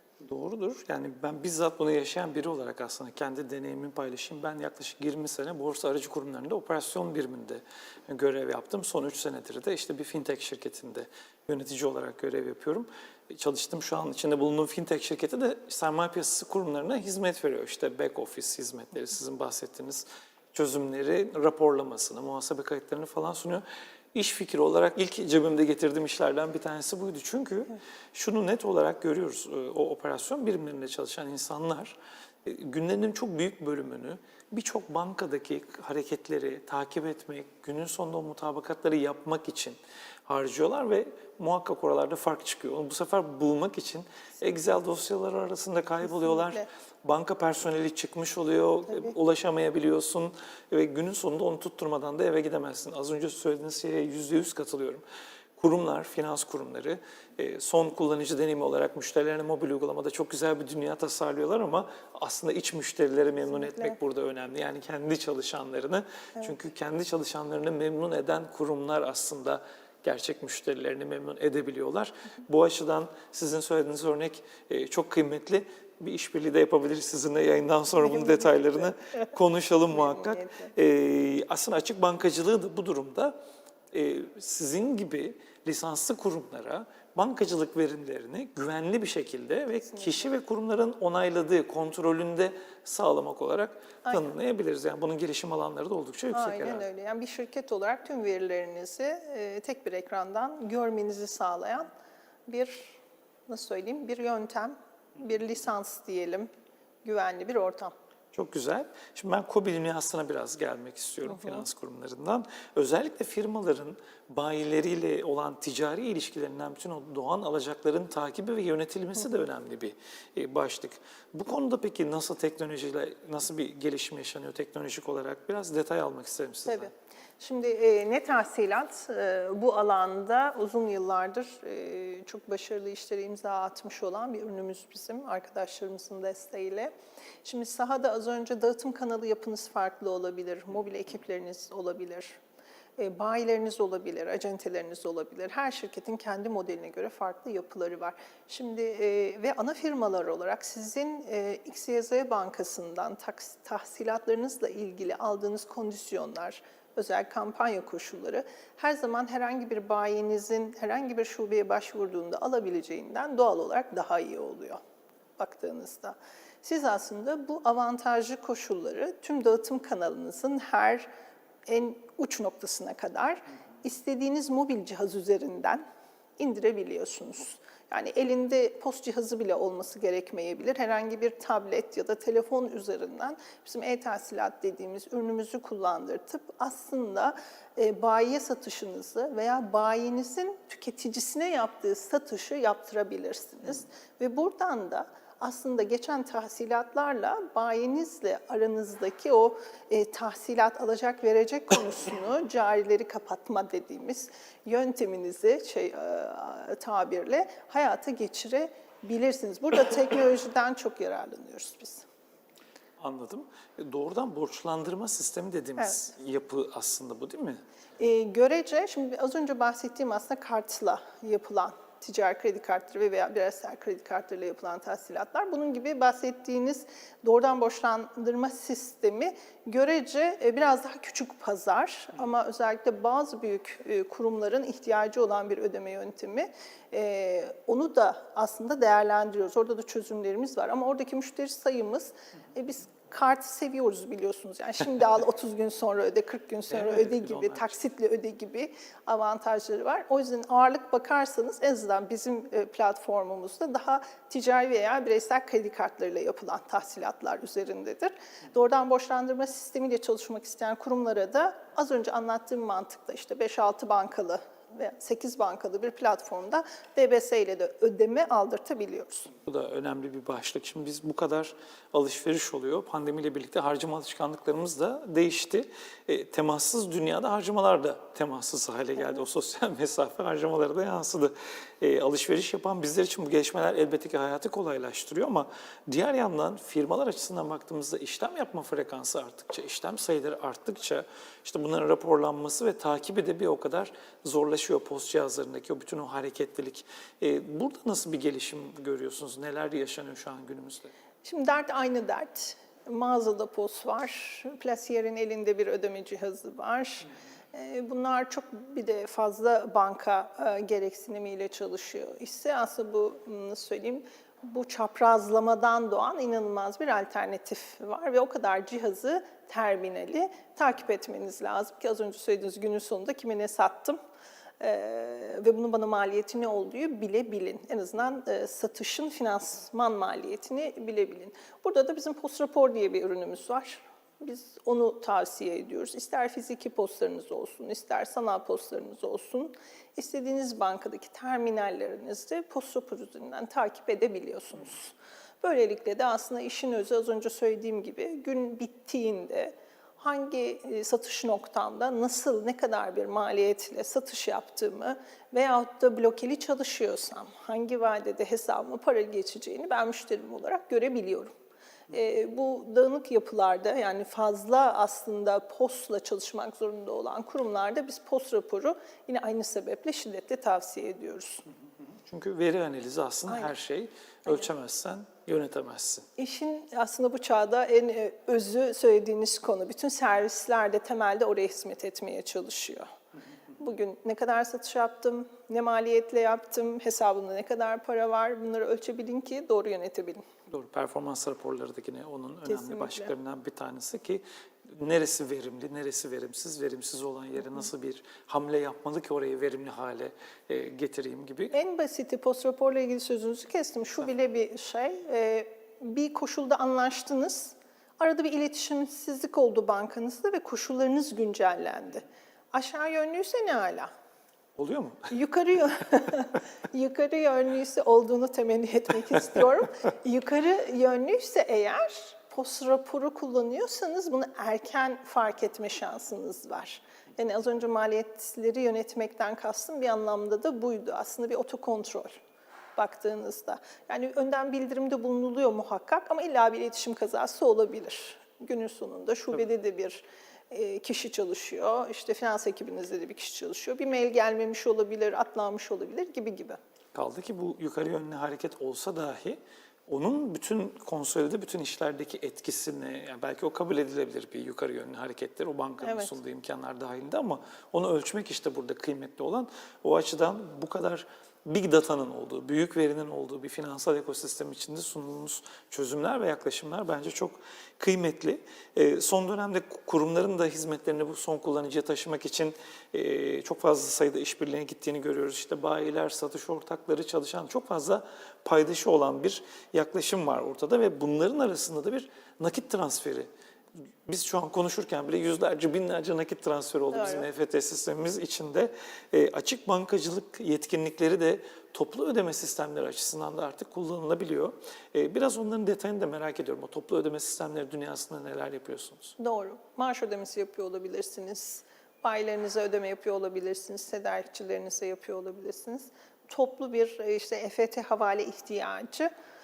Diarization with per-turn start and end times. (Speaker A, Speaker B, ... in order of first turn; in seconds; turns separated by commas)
Speaker A: 0.2-55.0, Speaker B: 46.1-46.7, Speaker A: 55.6-83.4, Speaker B: 63.5-64.0, Speaker B: 78.0-78.9, Speaker B: 79.9-80.7, Speaker A: 83.9-96.8, Speaker B: 89.9-90.3, Speaker B: 96.3-101.9, Speaker B: 102.5-106.5, Speaker B: 107.0-107.9, Speaker A: 108.3-126.9, Speaker B: 111.3-111.6, Speaker B: 126.7-136.9, Speaker B: 137.4-142.4, Speaker B: 143.0-164.8, Speaker B: 165.4-171.1, Speaker B: 171.7-175.8, Speaker B: 176.4-212.1, Speaker A: 213.0-217.6, Speaker B: 218.0-269.3, Speaker A: 246.7-247.7, Speaker A: 269.4-300.9, Speaker B: 301.2-324.0, Speaker B: 324.6-361.3, Speaker B: 361.9-371.4, Speaker A: 372.1-376.1, Speaker B: 376.2-382.9, Speaker B: 383.6-390.2, Speaker A: 390.5-401.5, Speaker B: 392.4-393.1, Speaker B: 401.5-413.9, Speaker A: 414.6-415.1, Speaker B: 415.1-432.2, Speaker B: 432.8-446.6, Speaker A: 446.9-483.3, Speaker B: 455.8-456.1, Speaker A: 484.1-499.1, Speaker B: 486.9-487.3, Speaker B: 499.2-509.1